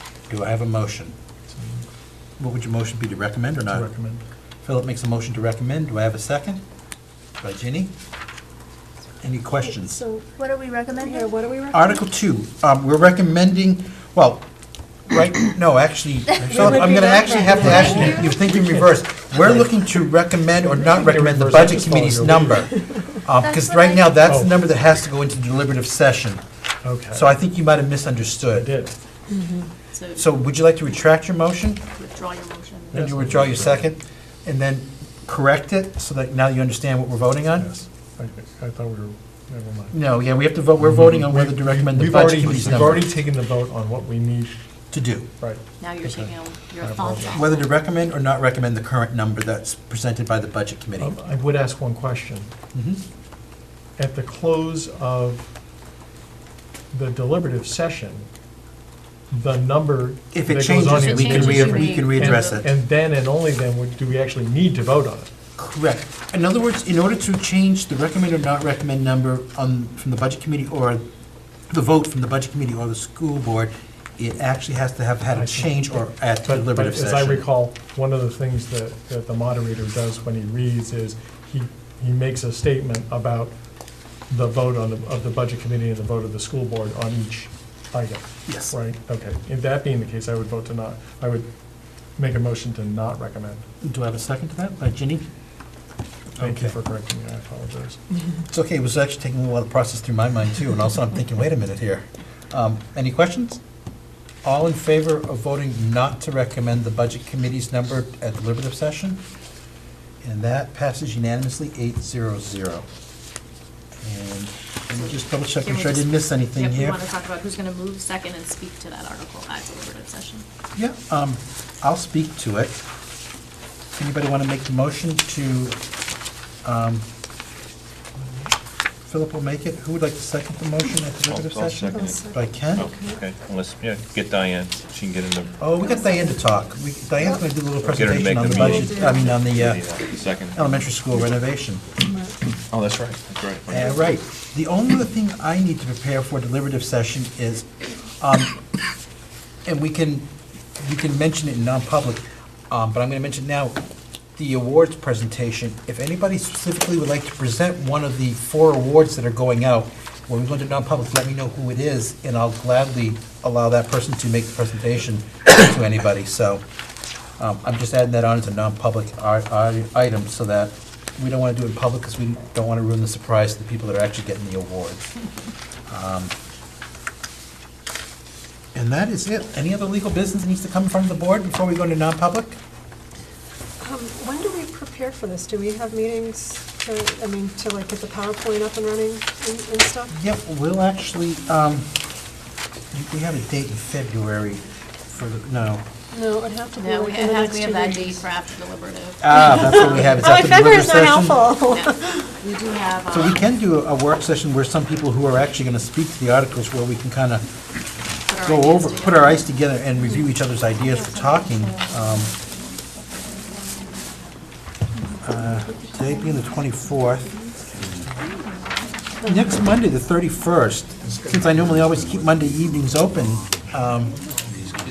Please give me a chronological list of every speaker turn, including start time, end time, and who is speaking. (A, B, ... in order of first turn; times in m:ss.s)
0:00.3-0:01.2 A
0:01.5-0:01.9 B
0:02.4-0:03.9 A
0:03.7-0:04.2 B
0:04.6-0:06.6 A
0:07.4-0:07.9 A
0:09.2-0:10.0 A
0:09.6-0:10.3 C
0:10.4-0:11.3 D
0:10.9-0:12.0 C
0:11.7-0:14.4 A
0:15.1-0:26.4 A
0:16.4-0:18.4 C
0:17.6-0:18.8 B
0:20.8-0:22.7 B
0:23.4-0:24.2 D
0:24.2-0:24.6 B
0:26.8-0:27.3 B
0:27.1-0:28.7 A
0:28.5-0:28.9 B
0:29.3-0:29.6 C
0:29.9-0:30.3 E
0:30.2-0:31.8 A
0:32.0-0:33.0 E
0:32.9-0:33.9 B
0:32.9-0:37.7 A
0:37.6-0:40.0 B
0:39.9-0:43.1 A
0:40.8-0:44.6 B
0:44.9-0:45.3 A
0:45.4-0:47.4 B
0:45.8-0:47.7 E
0:47.3-0:51.2 A
0:51.0-0:52.5 B
0:52.7-0:53.0 A
0:54.0-0:55.5 B
0:56.9-0:58.3 B
0:59.3-1:05.3 B
1:00.3-1:02.7 A
1:00.9-1:02.6 E
1:05.6-1:11.0 A
1:11.7-1:17.5 A
1:15.3-1:23.5 B
1:24.3-1:31.5 B
1:28.5-1:28.8 A
1:32.2-1:33.7 B
1:33.8-1:35.2 A
1:36.4-1:36.8 A
1:36.4-1:38.0 B
1:38.5-1:43.6 A
1:44.4-1:49.2 A
1:50.2-1:52.8 A
1:54.0-1:57.0 A
1:54.9-2:00.4 E
2:00.8-2:02.8 A
2:04.0-2:05.8 A
2:06.6-2:07.0 A
2:09.1-2:12.9 A
2:11.3-2:15.5 F
2:11.9-2:13.2 C
2:15.6-2:20.0 A
2:17.8-2:20.8 F
2:18.5-2:19.4 C
2:20.5-2:21.8 A
2:22.0-2:22.4 C
2:22.7-2:24.1 F
2:23.7-2:27.7 A
2:28.2-2:28.6 A
2:29.7-2:30.3 A
2:30.8-2:33.8 A
2:34.4-2:46.6 A
2:47.4-2:55.1 A
2:55.9-2:56.3 A
2:58.8-3:02.6 A
3:03.8-3:10.2 C
3:10.2-3:11.9 A
3:12.9-3:15.8 A
3:16.1-3:18.2 C
3:16.8-3:20.2 E
3:19.2-3:21.5 A
3:19.3-3:22.4 C
3:21.6-3:23.4 E
3:23.1-3:27.5 A
3:28.3-3:29.4 E
3:28.4-3:32.3 A
3:30.0-3:30.3 D
3:30.9-3:32.3 D
3:33.2-3:33.6 D
3:35.0-3:37.6 D
3:35.2-3:37.4 A
3:38.3-3:38.7 D
3:39.2-3:39.5 C
3:39.2-3:44.2 A